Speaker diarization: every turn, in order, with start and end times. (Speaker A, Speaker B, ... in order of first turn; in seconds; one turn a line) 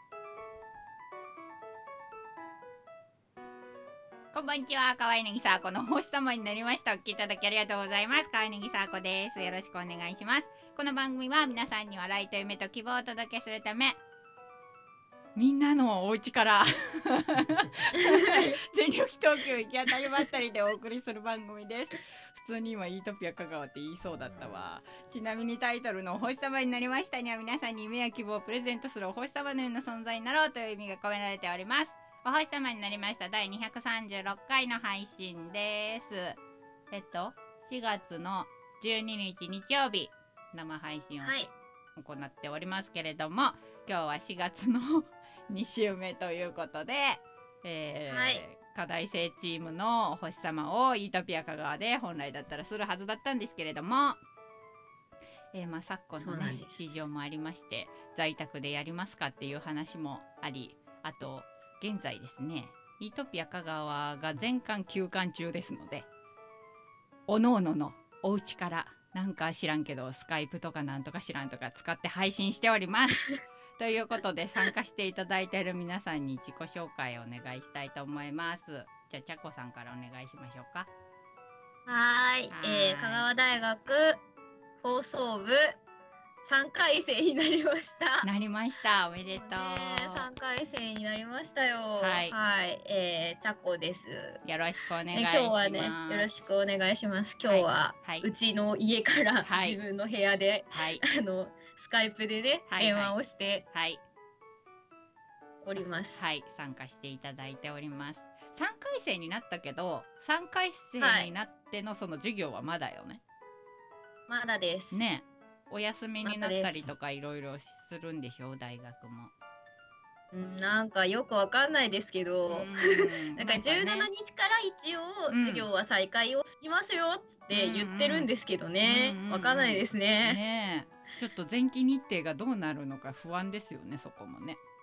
Speaker A: 4.3-14.0
Speaker A: 15.3-36.4
Speaker B: 18.0-18.5
Speaker A: 36.9-41.3
Speaker B: 41.2-41.5
Speaker A: 42.0-54.2
Speaker B: 48.1-48.4
Speaker A: 55.5-66.1
Speaker B: 56.2-56.9
Speaker A: 67.3-73.2
Speaker A: 73.8-80.9
Speaker B: 81.9-84.2
Speaker A: 82.5-83.3
Speaker B: 84.8-85.8
Speaker B: 86.4-88.3
Speaker A: 88.2-90.3
Speaker B: 89.3-94.4
Speaker A: 92.0-92.3
Speaker A: 94.4-96.3
Speaker B: 95.1-103.7
Speaker A: 97.4-98.3
Speaker A: 99.4-99.8
Speaker A: 100.7-101.0
Speaker A: 102.7-103.2
Speaker A: 103.7-104.0
Speaker B: 105.6-106.2
Speaker A: 105.7-113.2
Speaker B: 111.0-111.3
Speaker B: 114.3-115.0
Speaker A: 114.9-119.3
Speaker B: 116.2-116.9
Speaker B: 120.3-130.4
Speaker A: 122.5-124.1
Speaker A: 125.3-125.7
Speaker A: 127.5-134.6